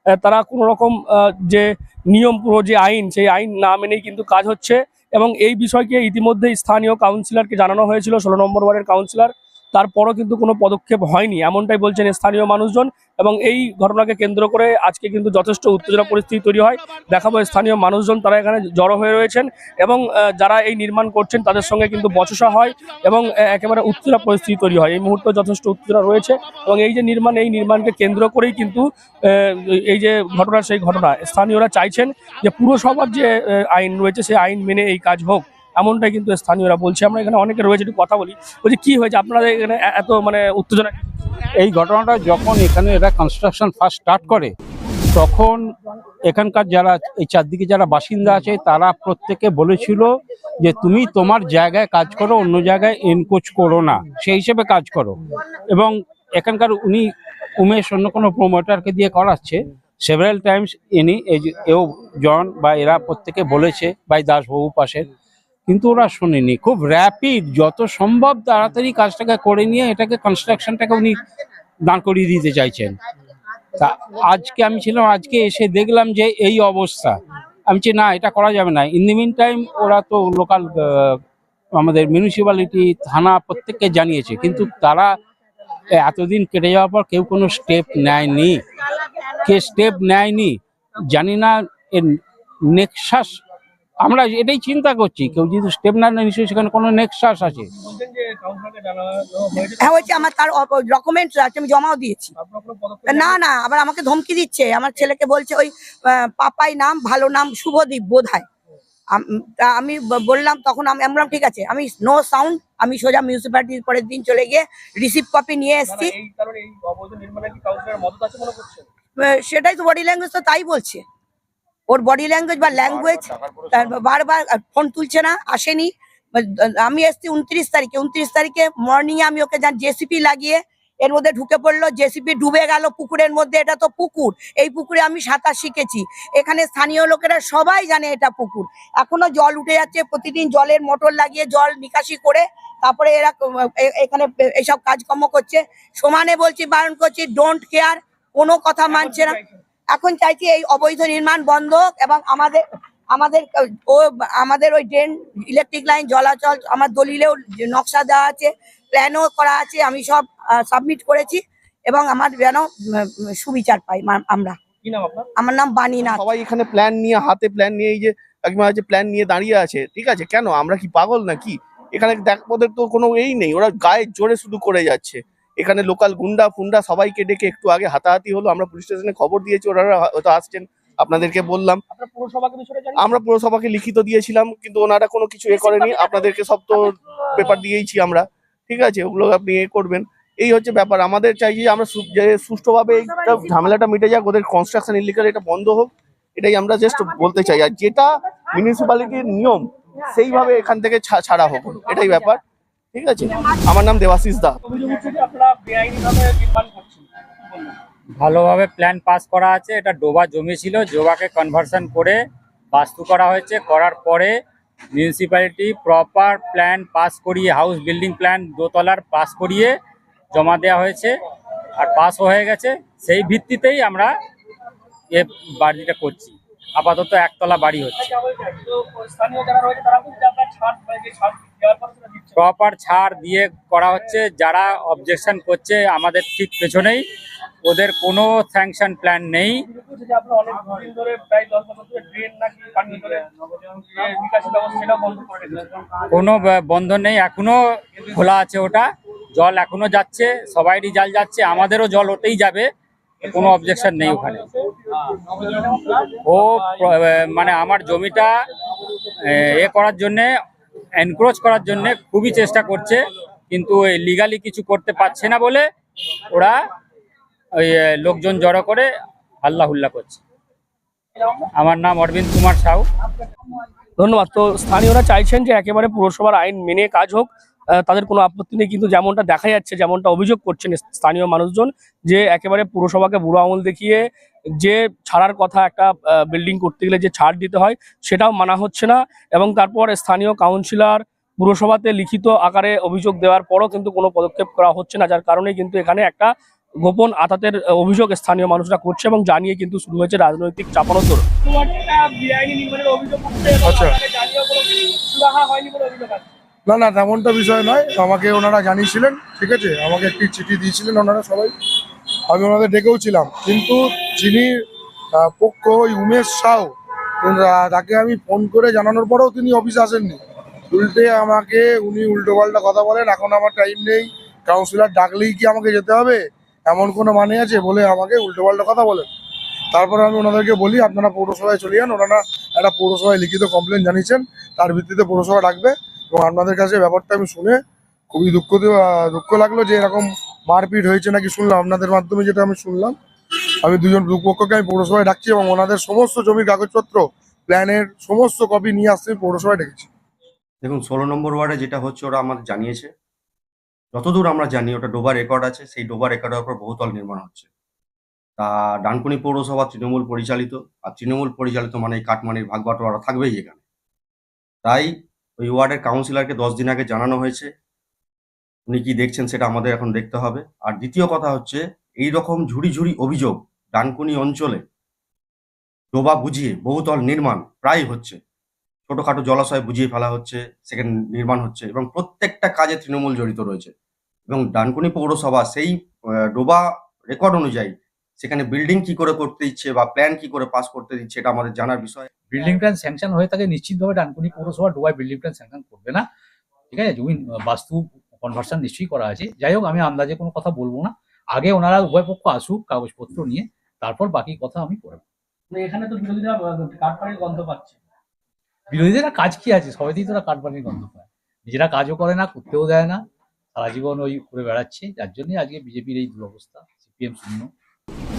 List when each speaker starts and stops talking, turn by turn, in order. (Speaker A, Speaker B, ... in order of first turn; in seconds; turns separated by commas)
Speaker A: 0.2-41.0, Speaker B: 41.6-44.5, Speaker B: 45.1-45.6, Speaker B: 46.2-65.1, Speaker B: 65.7-71.2, Speaker B: 71.8-73.0, Speaker B: 73.8-81.2, Speaker B: 81.8-85.2, Speaker B: 85.9-93.4, Speaker B: 94.0-97.7, Speaker A: 97.7-100.2, Speaker C: 99.8-102.3, Speaker A: 102.4-103.4, Speaker C: 103.1-108.5, Speaker C: 109.2-116.2, Speaker A: 115.9-118.9, Speaker C: 119.2-121.0, Speaker C: 121.9-149.4, Speaker A: 148.9-149.4, Speaker C: 149.9-152.6, Speaker C: 153.1-164.6, Speaker A: 164.8-165.3, Speaker C: 165.4-166.3, Speaker D: 166.2-181.8, Speaker A: 181.9-183.2, Speaker D: 183.1-186.8, Speaker D: 187.4-202.4, Speaker D: 202.9-204.6, Speaker A: 204.7-207.8, Speaker E: 208.2-212.2, Speaker E: 212.7-214.4, Speaker E: 214.9-219.8, Speaker E: 220.3-221.1, Speaker E: 221.8-224.1, Speaker E: 225.1-228.1, Speaker A: 228.0-232.4, Speaker E: 232.4-237.0, Speaker E: 237.6-239.6, Speaker A: 239.7-245.9, Speaker E: 246.1-252.7, Speaker E: 253.2-254.5, Speaker A: 254.2-254.6, Speaker A: 255.1-256.1, Speaker E: 256.2-258.4, Speaker E: 259.3-260.3, Speaker E: 261.0-265.7, Speaker E: 267.6-268.9, Speaker E: 269.4-270.2, Speaker A: 271.2-271.5, Speaker E: 271.6-272.9, Speaker A: 274.0-284.1, Speaker A: 284.6-296.3, Speaker A: 296.8-306.3, Speaker F: 303.6-304.0, Speaker F: 306.7-311.5, Speaker F: 312.3-314.5, Speaker F: 315.2-320.2, Speaker F: 320.7-329.1, Speaker F: 329.7-337.6, Speaker F: 338.1-342.9, Speaker F: 343.6-349.9, Speaker G: 350.6-352.9, Speaker G: 353.9-357.5, Speaker G: 358.4-363.6, Speaker G: 364.6-367.5, Speaker G: 368.7-374.6, Speaker G: 375.9-378.2, Speaker G: 378.9-383.7, Speaker G: 384.3-385.8, Speaker G: 386.3-392.1, Speaker H: 392.3-396.1, Speaker H: 396.7-405.0, Speaker A: 405.5-407.8, Speaker H: 408.7-413.0, Speaker H: 413.6-417.5